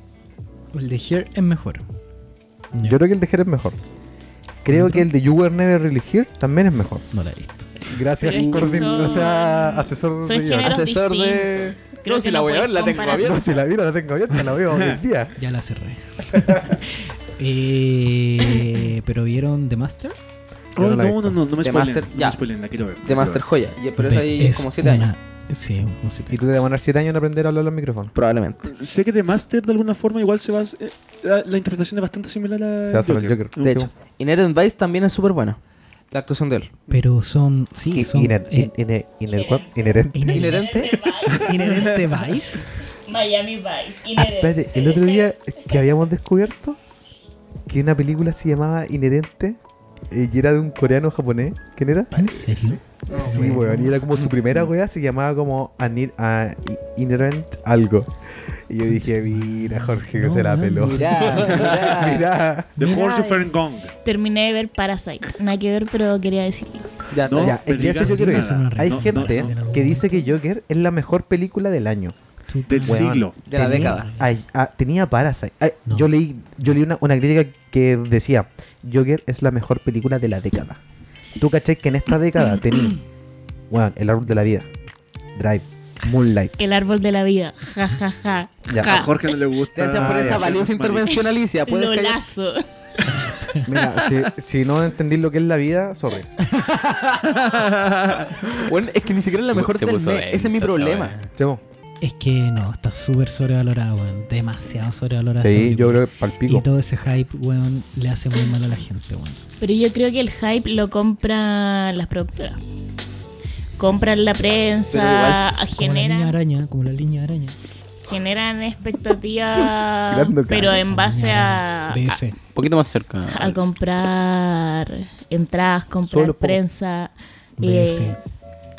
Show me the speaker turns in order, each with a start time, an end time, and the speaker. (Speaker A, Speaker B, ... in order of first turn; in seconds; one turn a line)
Speaker A: 0.7-1.8
Speaker A: 2.7-3.0
Speaker B: 2.8-3.8
Speaker B: 4.6-7.0
Speaker A: 4.7-5.1
Speaker A: 7.1-7.7
Speaker B: 7.9-10.8
Speaker C: 8.2-13.4
Speaker D: 8.3-9.0
Speaker D: 10.6-13.4
Speaker B: 13.2-15.3
Speaker E: 14.7-15.0
Speaker A: 15.3-20.2
Speaker B: 16.4-16.8
Speaker E: 20.8-23.4
Speaker B: 20.8-21.4
Speaker D: 21.6-22.4
Speaker D: 23.0-25.1
Speaker A: 24.0-26.5
Speaker B: 26.3-28.1
Speaker D: 28.1-28.7
Speaker E: 28.7-33.7
Speaker B: 32.8-33.9
Speaker D: 33.6-35.6
Speaker D: 36.1-36.7
Speaker A: 36.9-38.7
Speaker B: 37.9-40.5
Speaker C: 39.3-41.6
Speaker A: 40.1-42.6
Speaker D: 40.3-41.1
Speaker E: 41.4-42.2
Speaker C: 43.1-45.3
Speaker B: 44.1-46.8
Speaker B: 47.7-49.6
Speaker B: 50.1-62.7
Speaker A: 52.1-54.0
Speaker D: 53.1-53.6
Speaker A: 58.9-61.9
Speaker D: 60.9-62.3
Speaker A: 62.8-63.5
Speaker E: 62.8-63.9
Speaker C: 64.0-67.0
Speaker D: 67.1-67.6
Speaker E: 67.2-69.5
Speaker B: 67.3-72.1
Speaker A: 67.7-70.3
Speaker A: 72.5-74.3
Speaker E: 72.7-73.4
Speaker B: 72.8-80.8
Speaker D: 73.4-74.1
Speaker B: 81.4-83.0
Speaker B: 83.7-84.7
Speaker B: 85.3-86.5
Speaker C: 86.6-89.5
Speaker B: 88.7-89.1
Speaker E: 88.8-91.1
Speaker D: 89.7-92.2
Speaker B: 89.9-90.5
Speaker C: 91.0-93.4
Speaker A: 93.2-93.6
Speaker B: 93.6-96.3
Speaker D: 96.5-101.1
Speaker F: 99.5-101.3
Speaker B: 101.3-101.6
Speaker A: 102.0-109.4
Speaker B: 105.4-106.7
Speaker C: 109.6-112.6
Speaker C: 113.8-116.3
Speaker D: 114.9-115.5
Speaker A: 115.7-117.5
Speaker C: 118.0-122.2
Speaker B: 120.1-120.8
Speaker A: 120.9-122.4
Speaker F: 122.5-123.6
Speaker C: 123.3-128.2
Speaker B: 126.0-126.6
Speaker A: 127.6-128.2